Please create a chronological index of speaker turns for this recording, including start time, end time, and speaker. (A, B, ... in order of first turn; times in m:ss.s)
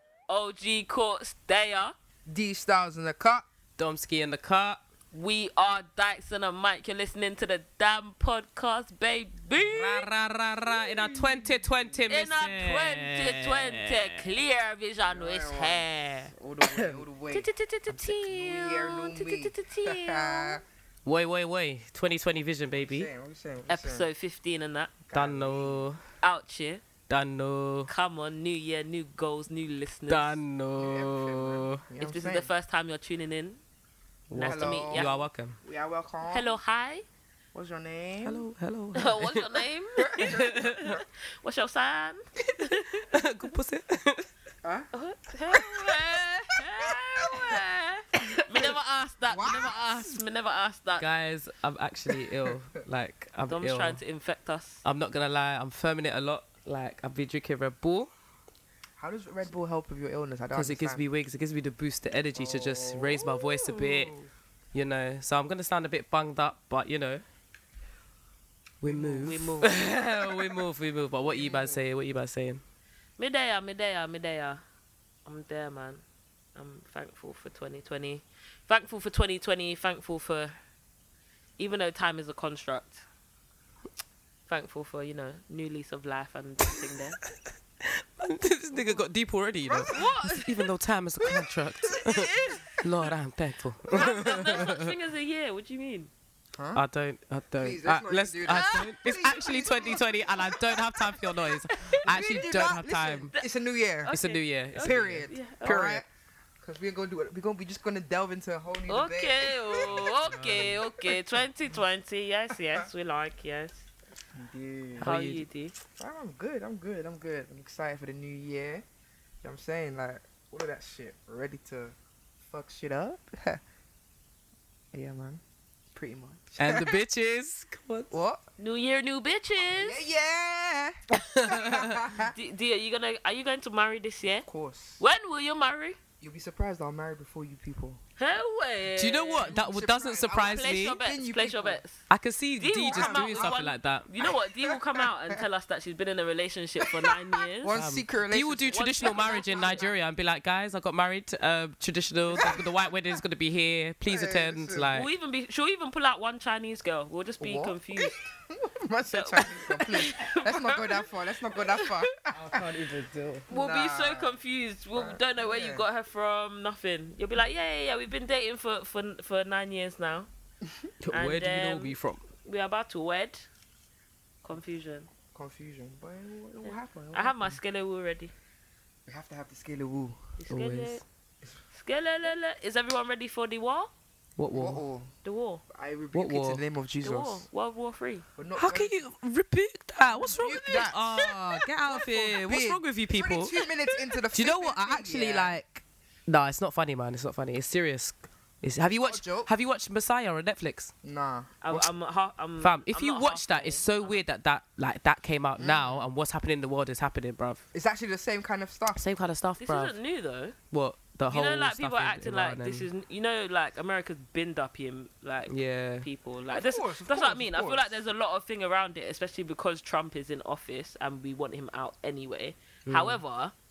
0:00.3-0:01.9 A
0:02.2-0:03.4 B
0:03.8-0:04.8 C
0:05.1-0:10.1 A
0:09.6-0:14.2 C
0:10.7-0:11.9 B
0:12.1-0:16.3 A
0:15.0-0:20.6 B
0:16.7-0:17.0 C
0:17.3-0:20.6 A
0:21.0-0:23.1 C
0:22.8-0:24.1 B
0:23.7-0:24.9 A
0:25.0-0:25.8 B
0:25.1-0:26.0 C
0:26.2-0:26.8 A
0:27.1-0:27.9 C
0:27.9-0:30.4 A
0:30.1-0:31.8 C
0:30.8-0:32.5 B
0:32.0-0:33.6 A
0:34.3-0:35.6 C
0:34.3-0:35.3 A
0:34.4-0:35.1 B
0:35.6-0:36.5 B
0:36.2-0:37.0 A
0:37.5-0:38.4 B
0:38.2-0:39.6 C
0:38.9-0:43.1 A
0:40.0-0:41.0 B
0:40.2-0:40.9 C
0:43.1-0:44.3 C
0:44.6-0:44.9 B
0:44.9-0:51.0 A
0:49.3-0:50.2 B
0:51.0-0:54.0 C
0:53.5-0:54.8 A
0:54.8-0:58.1 C
0:59.0-1:01.0 B
1:00.5-1:04.1 C
1:02.3-1:04.3 B
1:04.7-1:07.2 C
1:08.8-1:12.6 C
1:08.8-1:09.5 B
1:09.1-1:09.7 A
1:11.2-1:11.8 B
1:13.2-1:14.6 A
1:15.2-1:16.0 A
1:16.5-1:20.6 A
1:21.6-1:23.0 A
1:24.5-1:27.2 A
1:27.8-1:34.9 C
1:28.7-1:29.0 B
1:29.6-1:30.1 B
1:29.9-1:30.6 A
1:31.2-1:32.6 B
1:32.2-1:32.7 A
1:33.9-1:34.7 B
1:33.9-1:36.1 A
1:36.5-1:36.8 B
1:36.7-1:43.3 C
1:37.6-1:41.2 B
1:42.0-1:44.1 B
1:44.0-1:46.0 A
1:44.1-1:46.0 C
1:44.8-1:46.0 B
1:46.6-1:50.1 B
1:48.9-1:53.9 A
1:50.2-1:50.8 C
1:52.5-1:52.9 B
1:54.3-1:55.1 B
1:55.0-1:55.4 C
1:55.0-1:55.7 A
1:56.0-1:58.8 B
1:59.4-2:02.0 B
2:02.5-2:03.6 B
2:04.9-2:05.4 B
2:05.9-2:07.0 B
2:06.6-2:08.1 C
2:08.1-2:08.4 B
2:08.6-2:10.0 A
2:09.6-2:12.3 B
2:11.2-2:12.0 C
2:12.3-2:14.5 A
2:14.4-2:15.0 B
2:15.0-2:16.0 A
2:16.2-2:18.0 B
2:18.2-2:19.5 A
2:19.0-2:21.0 C
2:19.4-2:21.8 B
2:20.4-2:22.0 A
2:22.1-2:24.1 C
2:22.6-2:27.8 A
2:22.8-2:23.6 B
2:24.2-2:25.4 B
2:26.8-2:29.9 B
2:27.7-2:35.1 C
2:28.7-2:29.9 A
2:32.3-2:32.7 B
2:34.0-2:35.0 B
2:34.9-2:38.2 A
2:37.4-2:42.6 B
2:39.1-2:42.0 A
2:42.3-2:43.5 C
2:43.5-2:44.4 B
2:43.5-2:50.3 A
2:44.9-2:45.8 B
2:51.0-2:52.2 C
2:51.1-2:53.5 A
2:54.4-2:55.1 A
2:55.3-2:57.6 B
2:56.6-2:58.3 A
2:59.0-3:00.3 B
3:00.4-3:01.0 A
3:00.5-3:01.0 C
3:01.7-3:03.9 A
3:04.4-3:04.8 C
3:04.5-3:05.1 B
3:05.2-3:05.6 A
3:05.7-3:07.4 B
3:06.1-3:06.6 C
3:07.0-3:08.2 A
3:08.4-3:09.0 B
3:08.5-3:13.5 C
3:10.1-3:15.6 B
3:14.3-3:20.9 C
3:19.0-3:19.5 B
3:21.0-3:21.8 B
3:21.6-3:24.2 A
3:22.6-3:27.6 C
3:25.6-3:26.1 B
3:27.7-3:29.0 B
3:29.0-3:30.0 C
3:29.6-3:30.6 A
3:30.7-3:32.9 C
3:31.3-3:43.5 A
3:35.5-3:36.1 C
3:36.5-3:38.0 B
3:42.8-3:43.2 C